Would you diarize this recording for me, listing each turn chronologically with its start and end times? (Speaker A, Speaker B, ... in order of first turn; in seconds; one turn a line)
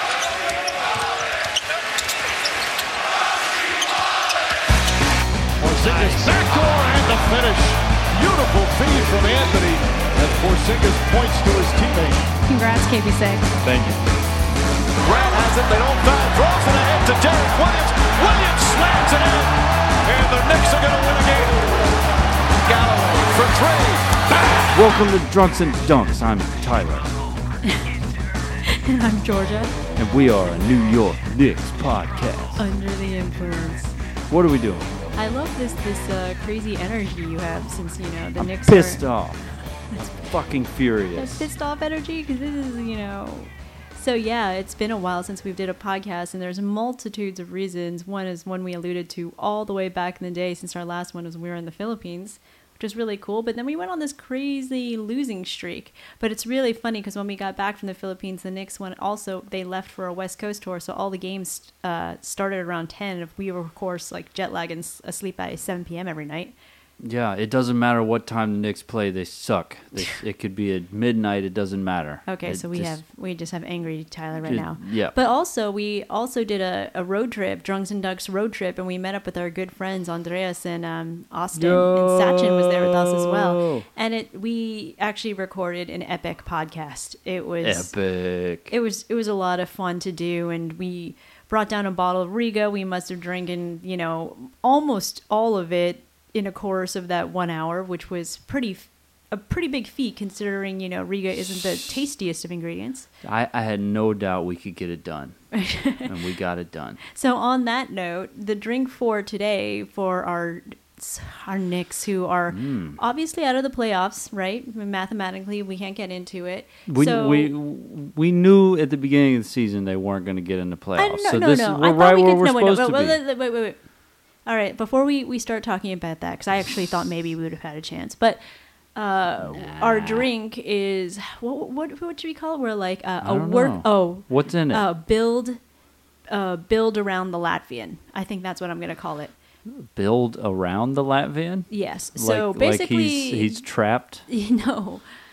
Speaker A: 5.6-12.3
Speaker B: 12.4-13.6
Speaker A: 13.6-14.0
Speaker A: 15.0-21.7
Speaker A: 22.6-24.6
Speaker C: 24.7-27.1
Speaker B: 28.6-29.7
Speaker C: 30.0-32.6
Speaker B: 32.5-33.9
Speaker C: 34.3-34.9
Speaker B: 35.1-39.1
Speaker C: 38.4-39.4
Speaker C: 40.1-41.5
Speaker B: 41.1-66.5
Speaker C: 67.0-73.0
Speaker B: 72.3-87.9
Speaker C: 74.4-75.2
Speaker C: 81.5-83.8
Speaker C: 87.6-88.7
Speaker B: 88.7-103.1
Speaker C: 103.2-105.4
Speaker B: 105.5-106.1
Speaker C: 106.0-107.0
Speaker B: 107.1-117.5
Speaker C: 112.5-113.0
Speaker C: 116.9-123.2
Speaker B: 121.0-123.8
Speaker B: 124.5-128.4
Speaker B: 128.9-135.6
Speaker C: 129.4-130.3
Speaker C: 133.2-134.9
Speaker B: 136.3-139.3
Speaker C: 139.7-144.2
Speaker B: 141.7-143.6
Speaker B: 144.3-145.0